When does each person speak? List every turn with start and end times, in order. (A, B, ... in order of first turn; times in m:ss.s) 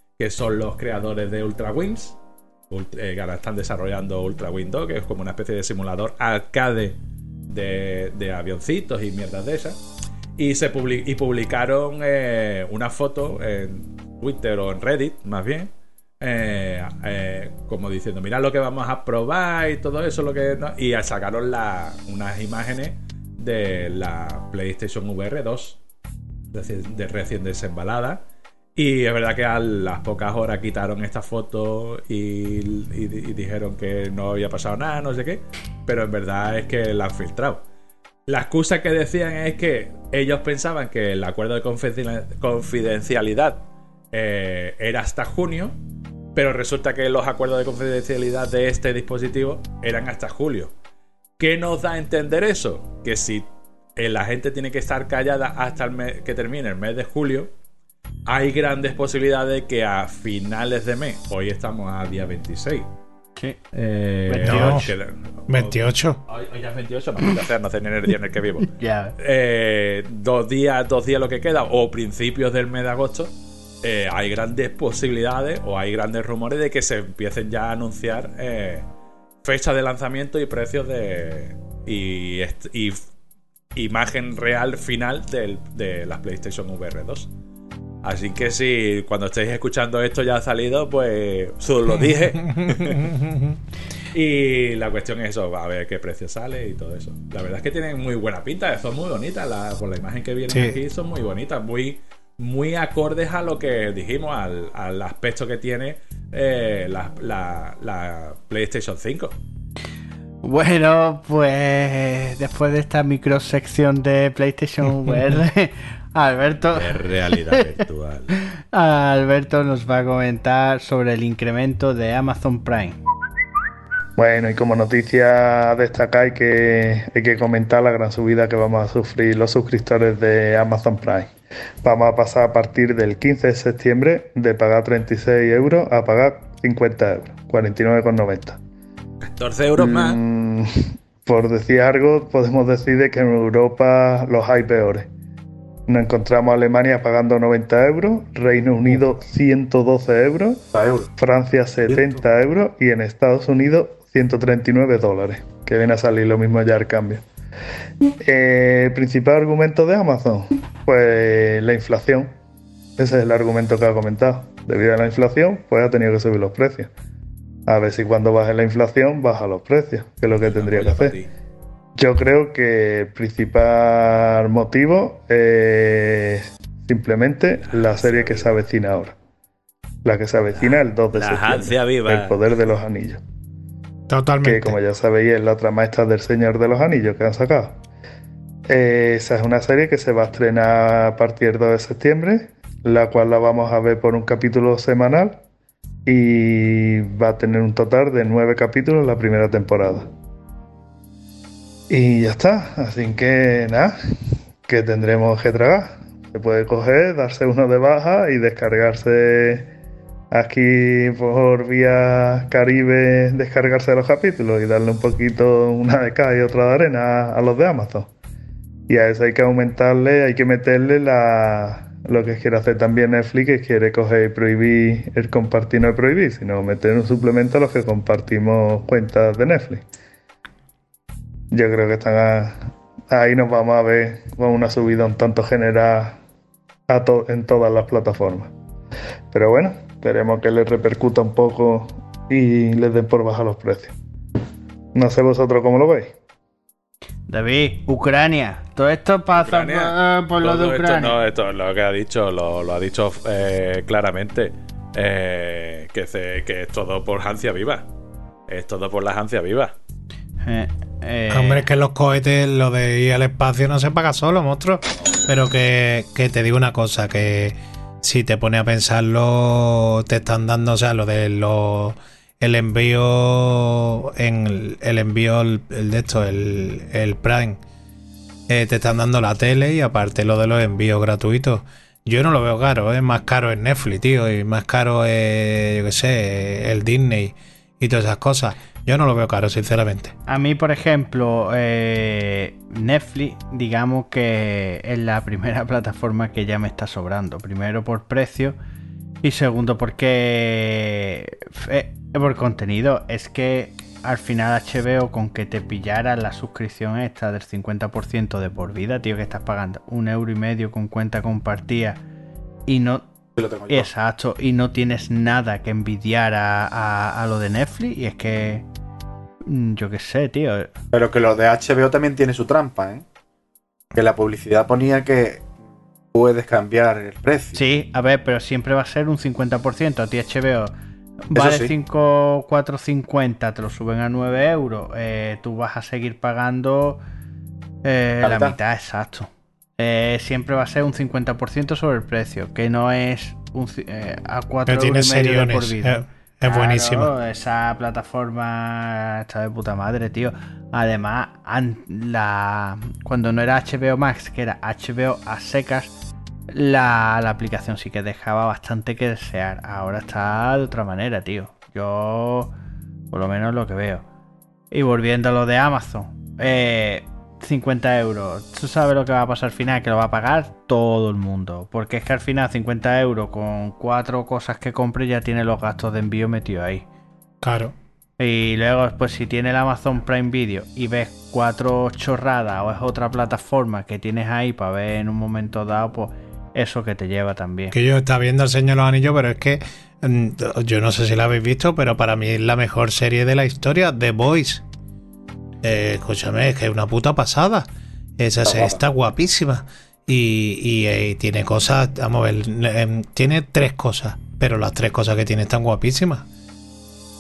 0:00.2-0:02.2 A
0:02.7-0:07.0 A
0:07.5-0:09.8 A
0:10.4-0:15.7 A
0:16.2-0:25.8 A
0:26.5-0:28.2 A
0:28.8-0:37.6 A
0:38.3-0:45.8 A
0:46.4-0:50.7 A
0:51.4-0:57.5 A
0:58.3-1:02.9 A
1:03.7-1:05.8 A
1:04.3-1:04.9 B
1:04.4-1:04.9 C
1:05.5-1:06.2 C
1:06.3-1:13.3 A
1:08.6-1:09.1 B
1:13.8-1:18.9 A
1:19.4-1:23.0 A
1:23.8-1:27.3 A
1:28.0-1:33.2 A
1:32.5-1:33.6 C
1:34.1-1:49.4 A
1:40.5-1:40.8 C
1:50.4-1:57.0 B
1:56.7-1:58.4 A
1:58.7-2:03.0 B
2:04.2-2:18.6 D
2:19.2-2:20.2 A
2:19.8-2:25.1 D
2:25.9-2:30.6 D
2:30.7-2:31.1 E
2:31.2-2:37.2 D
2:31.9-2:32.2 E
2:38.2-2:42.3 D
2:43.0-2:46.9 D
2:47.7-2:51.2 D
2:50.4-2:51.3 A
2:52.0-2:59.1 D
2:57.6-2:58.6 A
3:00.0-3:03.2 D
3:01.1-3:02.4 A
3:04.1-3:04.8 C
3:04.4-3:07.8 D
3:08.7-3:15.4 D
3:16.1-3:20.1 D
3:21.9-3:23.9 D
3:24.7-3:29.7 D
3:30.3-3:38.1 D
3:38.9-3:49.8 D
3:51.5-3:56.2 D
3:56.9-3:58.5 D
3:59.3-4:04.0 D
4:05.0-4:06.1 D
4:07.3-4:11.2 B
4:09.4-4:17.9 A
4:18.5-4:19.8 A
4:20.4-4:21.7 B
4:21.3-4:37.6 C
4:38.5-4:50.1 C
4:50.3-4:58.6 B
4:59.2-5:12.0 B
5:12.7-5:13.0 B
5:13.4-5:13.9 E
5:13.7-5:18.7 B
5:19.4-5:20.7 B
5:20.9-5:23.0 E
5:23.9-5:25.5 E
5:26.1-5:27.6 E
5:27.6-5:30.7 B
5:31.3-5:31.7 E
5:31.3-5:37.0 B
5:37.8-5:55.9 B
5:38.2-5:38.6 E
5:44.7-5:47.1 C
5:56.5-6:02.5 B
6:03.1-6:04.0 B
6:04.7-6:16.9 B
6:17.4-6:17.8 C
6:18.2-6:27.8 B
6:27.7-6:34.6 C
6:35.6-6:46.3 C
6:38.4-6:38.8 E